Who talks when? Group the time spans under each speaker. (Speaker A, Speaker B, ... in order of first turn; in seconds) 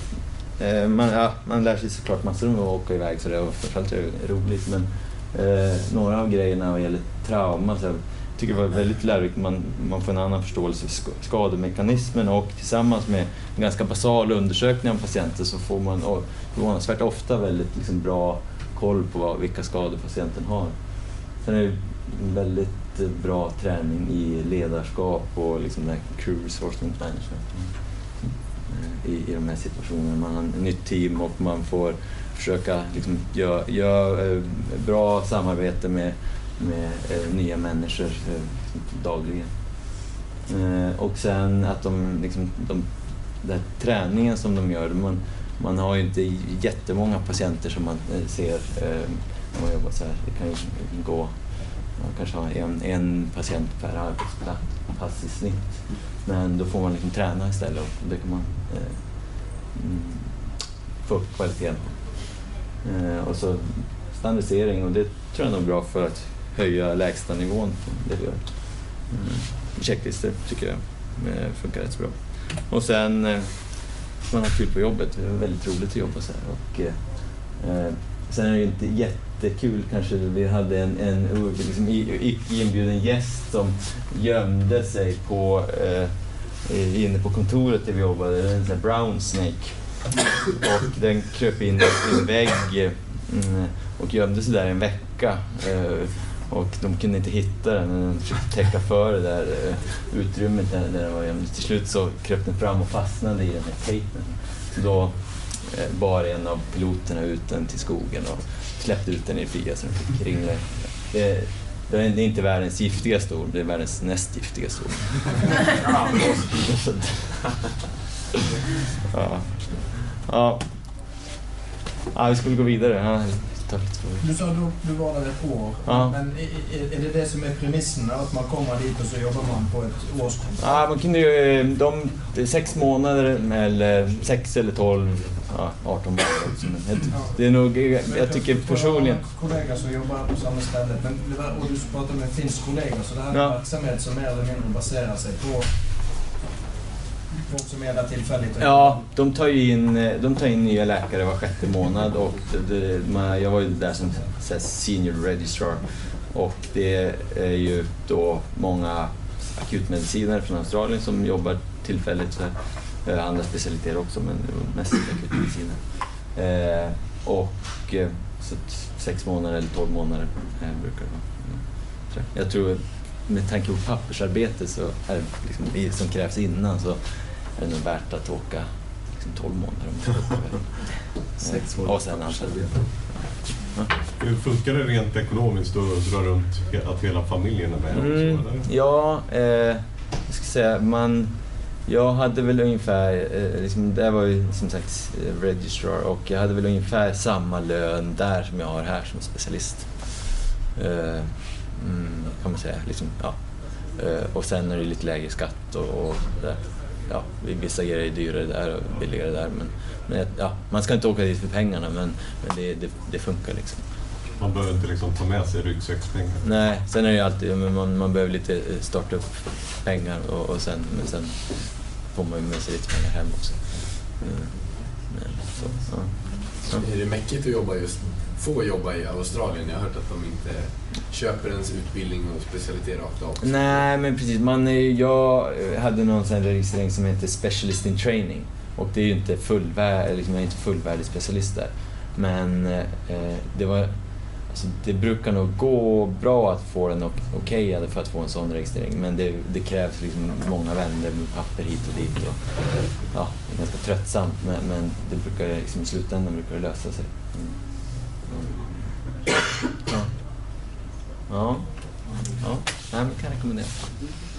Speaker A: 0.6-39.5, 40.5-51.4, 51.9-60.4, 61.0-117.7, 119.0-120.6, 122.1-124.3, 125.8-126.1, 130.6-139.2, 143.3-143.6, 148.6-183.9, 187.9-213.8, 216.4-226.8, 233.4-258.6, 259.8-260.1, 261.3-263.9
Speaker B: 124.2-130.7, 138.0-145.7, 147.4-149.0
Speaker C: 182.1-182.4, 226.6-233.9
Speaker D: 184.2-188.7, 214.4-216.4